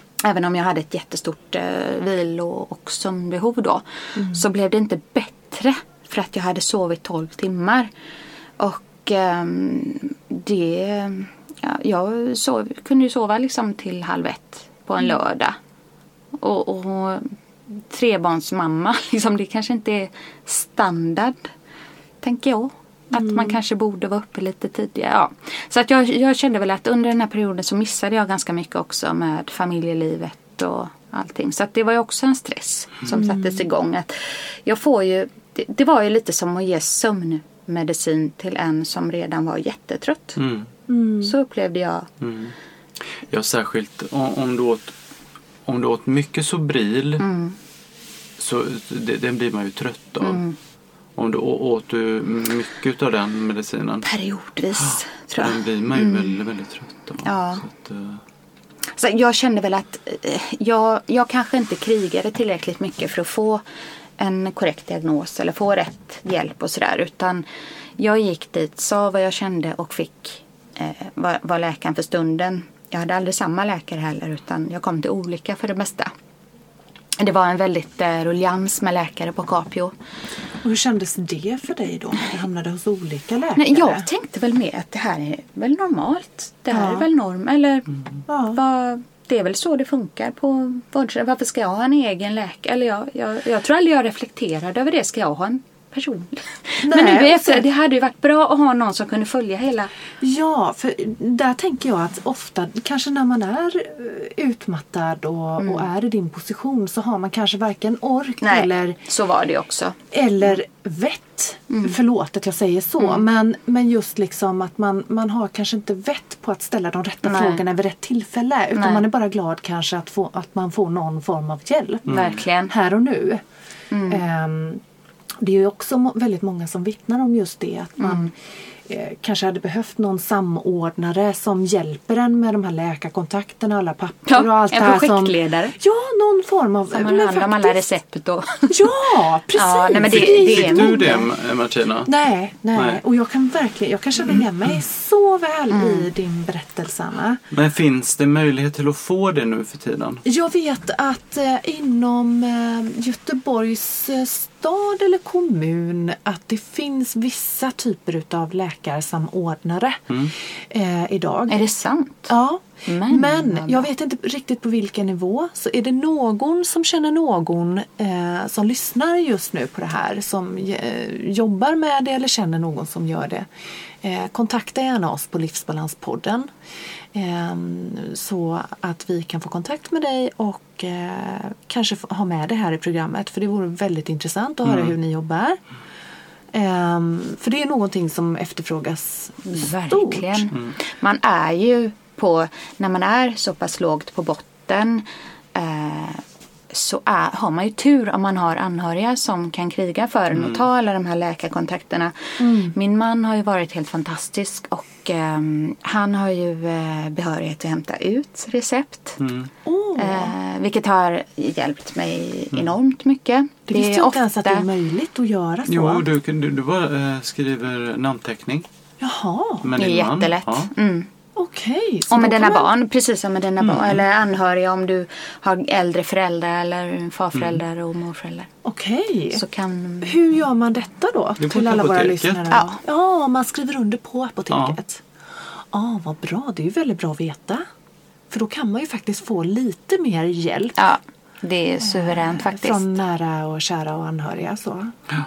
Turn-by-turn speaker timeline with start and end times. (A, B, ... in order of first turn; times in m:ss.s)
0:00.2-0:07.9 A
0:04.2-0:04.4 B
0:08.6-0:15.6 A
0:16.3-0:21.5 A
0:22.2-0:40.4 A
0:23.1-0:23.6 B
0:33.1-0:33.6 B
0:40.4-0:40.7 C
0:40.9-0:41.3 B
0:41.2-0:42.1 A
0:42.2-0:42.5 C
0:43.1-0:44.9 C
0:45.6-0:47.2 C
0:47.2-0:47.6 A
0:48.4-0:50.4 C
0:50.2-0:50.6 A
0:51.2-0:54.1 C
0:54.0-0:56.4 A
0:54.8-0:58.2 C
0:57.2-0:57.6 A
0:58.9-1:03.6 A
1:04.2-1:07.4 A
1:08.0-1:16.1 A
1:17.2-1:19.9 A
1:20.6-1:24.1 B
1:23.6-1:28.0 A
1:26.7-1:27.1 B
1:28.3-1:28.6 B
1:28.5-1:39.9 A
1:36.8-1:37.6 B
1:40.2-1:49.0 B
1:45.6-1:45.9 A
1:48.4-1:50.6 A
1:50.1-2:02.1 B
1:51.7-1:51.9 A
1:57.2-1:57.6 A
1:58.7-1:59.0 A
2:02.1-2:02.4 C
2:02.1-2:02.7 A
2:02.7-2:03.4 B
2:03.9-2:04.2 A
2:04.1-2:04.8 B
2:05.4-2:17.9 B
2:08.0-2:08.3 A
2:14.3-2:15.7 A
2:16.9-2:21.3 A
2:18.7-2:21.2 B
2:20.1-2:22.1 C
2:22.0-2:27.4 B
2:22.7-2:23.0 C
2:25.7-2:26.1 A
2:27.5-2:30.2 C
2:30.2-2:41.6 B
2:41.5-2:42.3 A
2:42.3-2:53.5 B
2:42.9-2:43.9 A
2:54.0-2:56.5 B
2:57.1-3:05.6 B
3:04.6-3:04.9 C
3:06.5-3:10.5 B
3:09.4-3:29.2 A
3:20.3-3:20.7 C
3:22.4-3:22.8 B
3:29.2-3:29.5 C
3:29.6-3:30.3 B
3:30.0-3:34.6 A
3:33.7-3:36.0 B
3:35.7-3:38.7 C
3:39.0-3:39.7 B
3:39.6-3:40.7 C
3:39.8-3:41.1 A
3:41.4-3:42.7 B
3:42.1-3:48.5 A
3:43.6-3:44.0 C
3:47.3-3:47.6 C
3:48.6-3:49.4 B
3:49.3-3:50.2 A
3:50.0-3:57.6 B
3:51.4-3:52.4 C
3:52.5-3:52.8 A
3:54.5-3:54.8 C
3:58.3-4:00.8 B
4:00.8-4:02.9 A
4:01.8-4:05.0 B